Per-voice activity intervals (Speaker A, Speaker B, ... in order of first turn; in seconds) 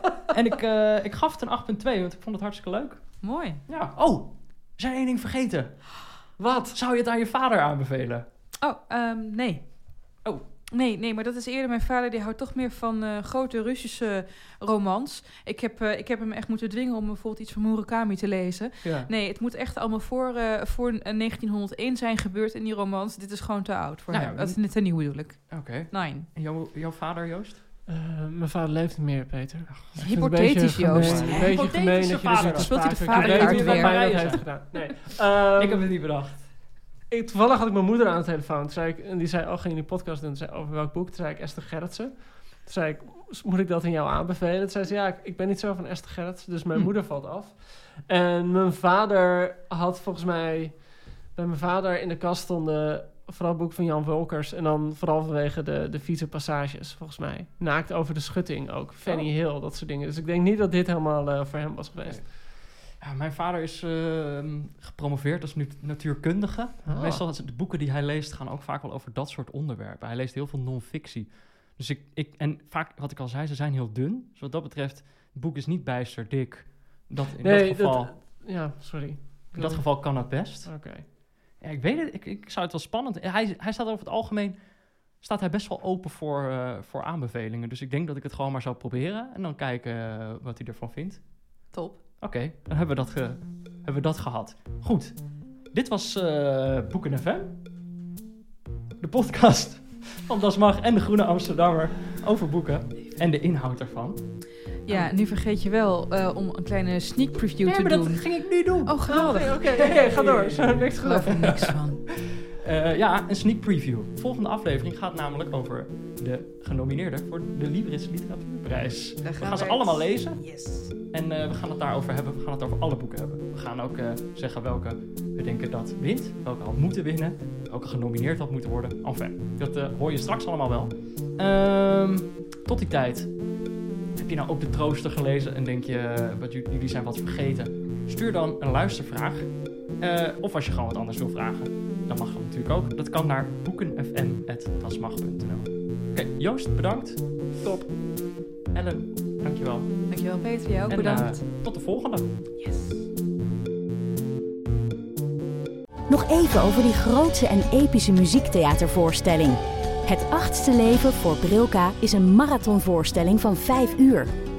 Speaker A: 0.3-8.3, 18.8-19.1, 24.1-27.6, 29.7-36.7, 62.0-78.1, 79.5-97.6, 99.0-105.1, 107.6-111.9, 112.6-147.6, 148.7-152.3
Speaker B: 3.2-3.6, 8.6-26.3, 30.0-31.6, 32.4-34.3, 91.7-92.0, 104.8-110.1, 111.0-112.0, 119.2-120.9, 150.1-151.8, 152.6-153.0
Speaker C: 6.4-6.8, 27.9-36.2, 37.1-62.3, 66.8-67.2, 77.4-81.0, 109.1-111.7, 147.6-147.9
Speaker D: 156.1-164.3